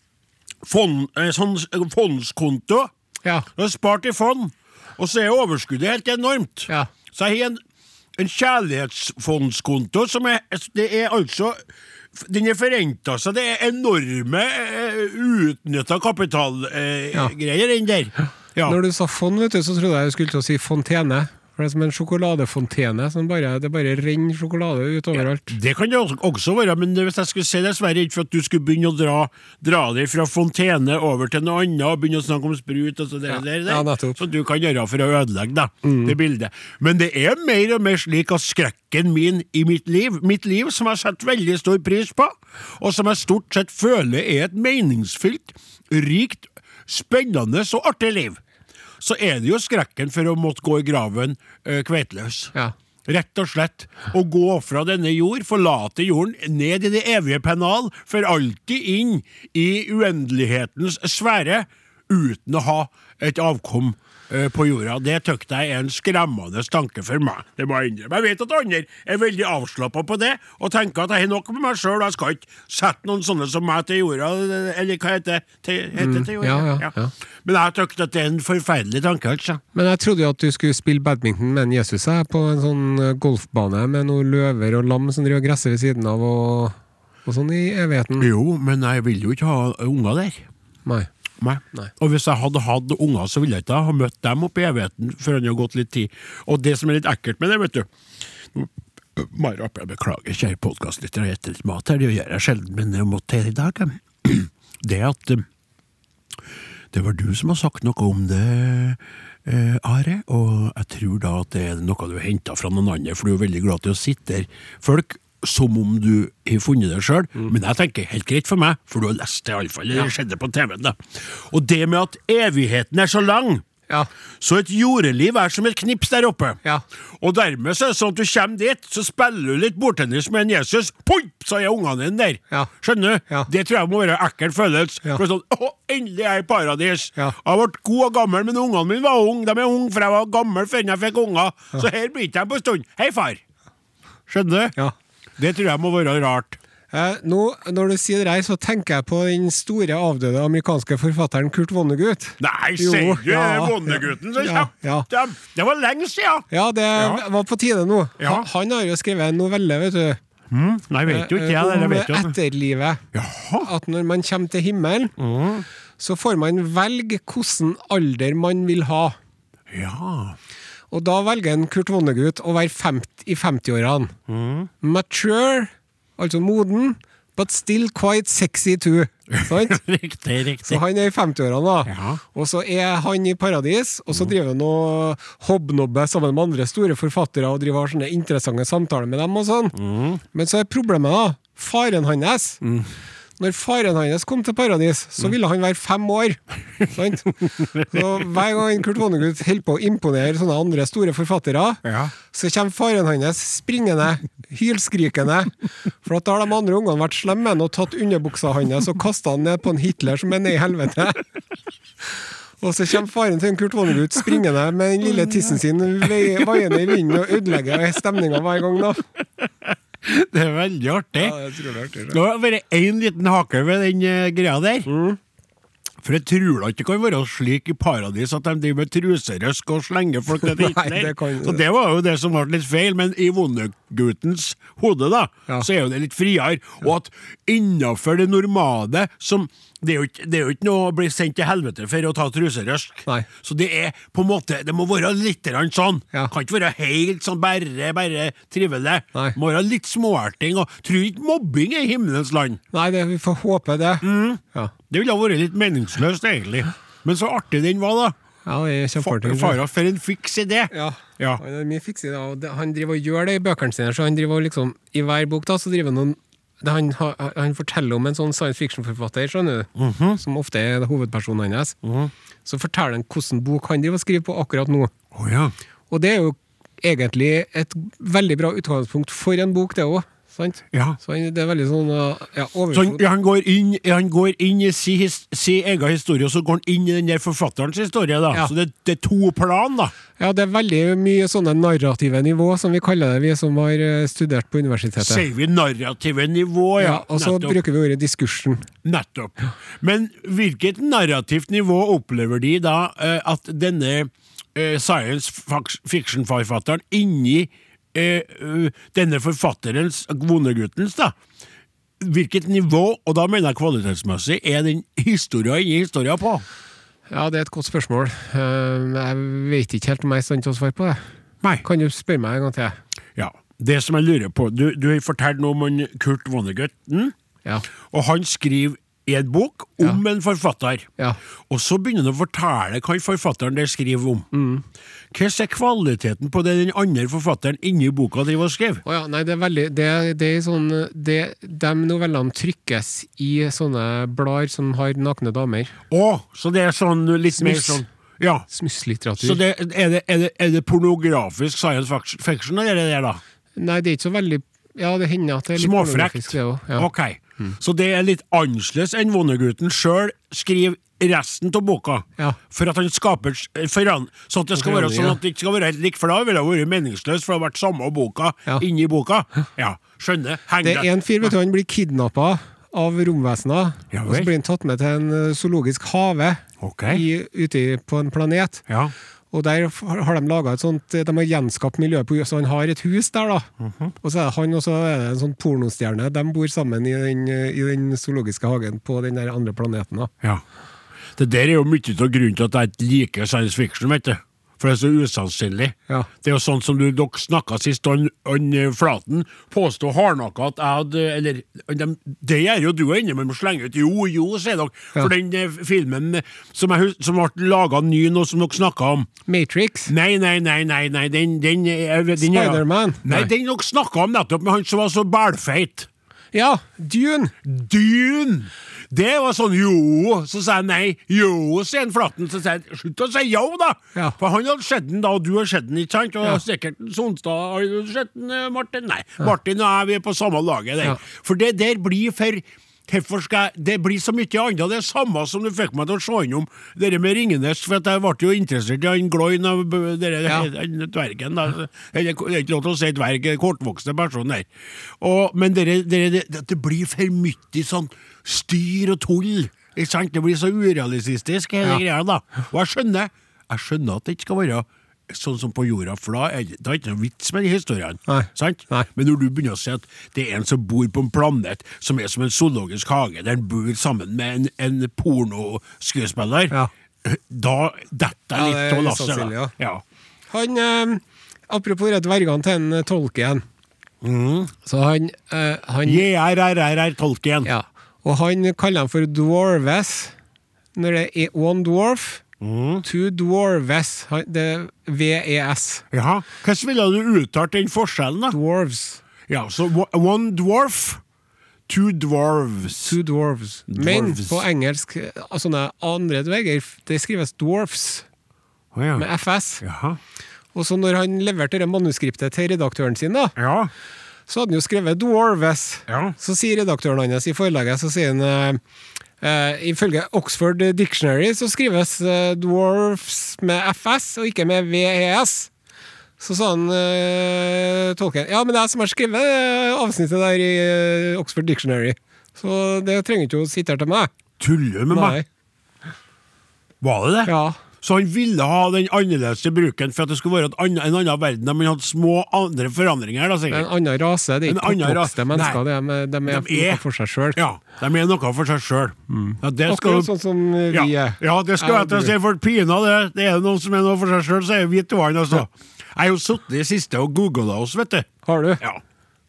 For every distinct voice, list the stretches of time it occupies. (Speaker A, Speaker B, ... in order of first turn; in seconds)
Speaker A: 0.6-2.9, 3.5-7.6, 8.2-11.6, 12.1-18.8, 25.1-48.4, 49.0-52.5, 53.0-76.9, 77.4-79.6, 88.2-90.5, 91.4-97.9, 98.5-105.4, 106.9-123.6, 124.4-126.6, 127.2-143.4, 144.3-144.7, 145.4-146.6, 152.4-157.2, 158.2-158.5, 160.5-162.3, 163.1-163.7, 165.2-165.7, 169.7-170.4, 174.3-174.7, 179.3-180.8, 181.9-182.2, 189.8-190.2, 192.6-192.9, 201.8-202.1, 215.0-216.8, 219.4-221.4, 222.1-224.9, 226.0-252.6, 254.0-258.1, 259.0-261.4, 269.8-270.2, 271.8-272.1, 275.1-275.5, 280.7-281.0, 282.7-289.9, 295.0-297.6, 298.8-311.1, 312.0-316.4, 323.1-327.1, 327.9-330.9, 331.5-334.3, 335.1-338.8, 345.9-348.5, 349.2-353.2, 355.6-371.3, 373.9-374.3, 376.6-377.0, 378.7-378.9, 383.6-383.9, 391.2-409.1, 409.9-415.9, 417.4-444.5, 445.0-469.8, 474.0-474.5, 475.8-477.5, 482.4-482.8, 485.9-488.4, 489.3-491.0, 491.7-493.0, 493.7-494.4, 498.7-499.1, 499.6-500.0, 503.4-503.7, 505.9-506.1, 524.4-525.2, 526.8-533.7, 534.5-535.6, 536.3-536.8, 537.4-540.1, 540.7-548.1
Speaker B: 18.6-25.6, 33.3-34.2, 35.8-36.1, 76.0-77.1, 79.7-88.3, 146.9-155.1, 156.5-160.2, 161.1-163.0, 163.6-165.1, 166.0-169.2, 170.9-174.1, 174.8-179.8, 180.6-189.8, 190.3-192.6, 193.4-205.5, 206.0-211.2, 212.6-219.0, 221.2-222.2, 224.8-225.2, 230.3-231.6, 252.7-254.7, 258.4-259.6, 260.7-271.8, 272.4-274.9, 275.9-283.0, 290.2-295.2, 296.8-298.6, 317.1-321.0, 321.6-322.8, 334.3-334.6, 338.8-345.7, 347.4-347.8, 348.5-349.4, 353.6-356.9, 364.6-365.2, 370.6-378.6, 379.3-383.5, 384.0-390.1, 409.2-409.9, 412.2-413.3, 416.3-417.3, 458.1-458.9, 468.3-469.5, 470.3-473.4, 474.6-476.1, 477.4-480.1, 480.7-482.2, 482.8-485.8, 488.3-489.0, 492.8-498.1, 498.9-499.6, 500.5-503.4, 504.3-508.6, 509.2-515.5, 516.2-524.1, 524.9-525.2, 527.2-527.6, 533.5-537.4, 539.1-542.1, 548.2-548.6